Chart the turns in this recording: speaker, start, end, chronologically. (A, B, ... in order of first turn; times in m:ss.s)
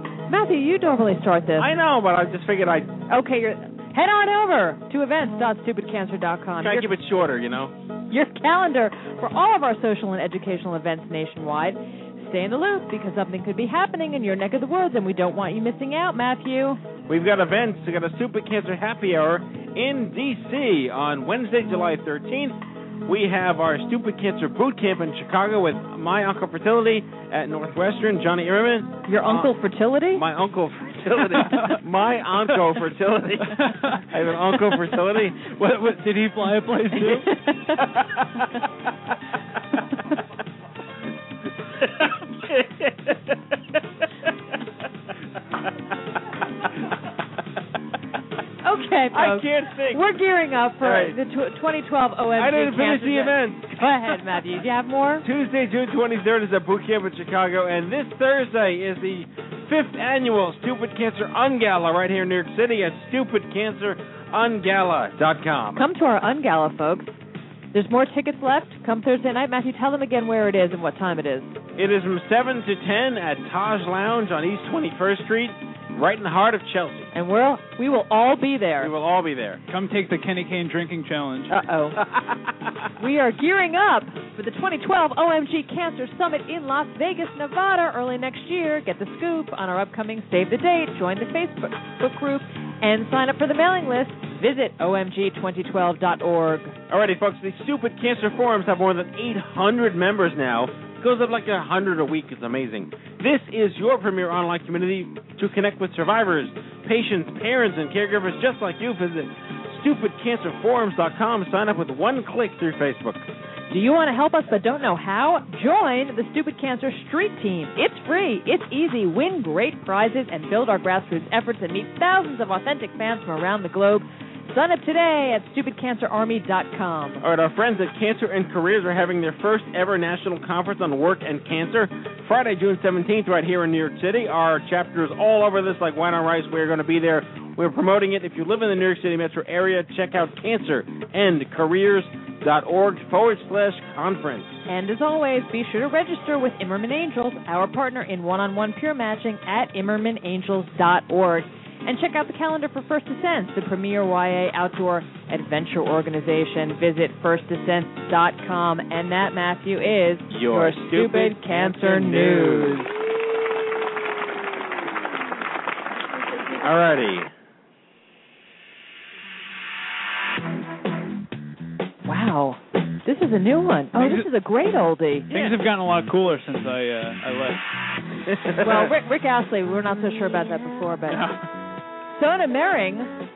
0:00.3-0:01.7 A
0:01.6-0:02.9 B
0:03.1-0:06.9 A
0:06.6-0:07.7 B
0:08.1-0:16.8 A
0:17.1-0:29.6 B
0:29.1-0:30.2 A
0:30.1-0:35.6 B
0:33.6-0:34.0 C
0:35.4-0:37.3 C
0:37.8-0:38.4 B
0:41.8-0:44.3 B
0:46.6-0:46.9 B
0:48.6-0:55.2 A
0:49.1-0:50.0 B
0:50.8-0:51.2 B
0:52.4-0:53.9 B
0:55.2-1:05.9 B
1:05.7-1:07.2 A
1:07.7-1:11.6 A
1:11.8-1:17.1 B
1:17.1-1:18.9 A
1:18.8-1:19.6 B
1:19.7-1:21.5 C
1:21.5-1:22.0 A
1:22.0-1:22.7 B
1:23.0-1:36.8 A
1:36.9-1:53.3 B
1:53.7-2:07.2 A
2:07.2-2:24.6 B
2:24.7-2:42.9 A
2:40.3-2:42.9 B
2:46.5-2:47.3 B
2:52.0-2:55.3 A
2:54.0-2:54.3 C
2:55.3-2:55.6 B
2:55.3-2:57.6 C
2:58.4-2:58.9 B
2:58.6-3:01.2 A
3:01.1-3:01.4 C
3:02.1-3:03.1 A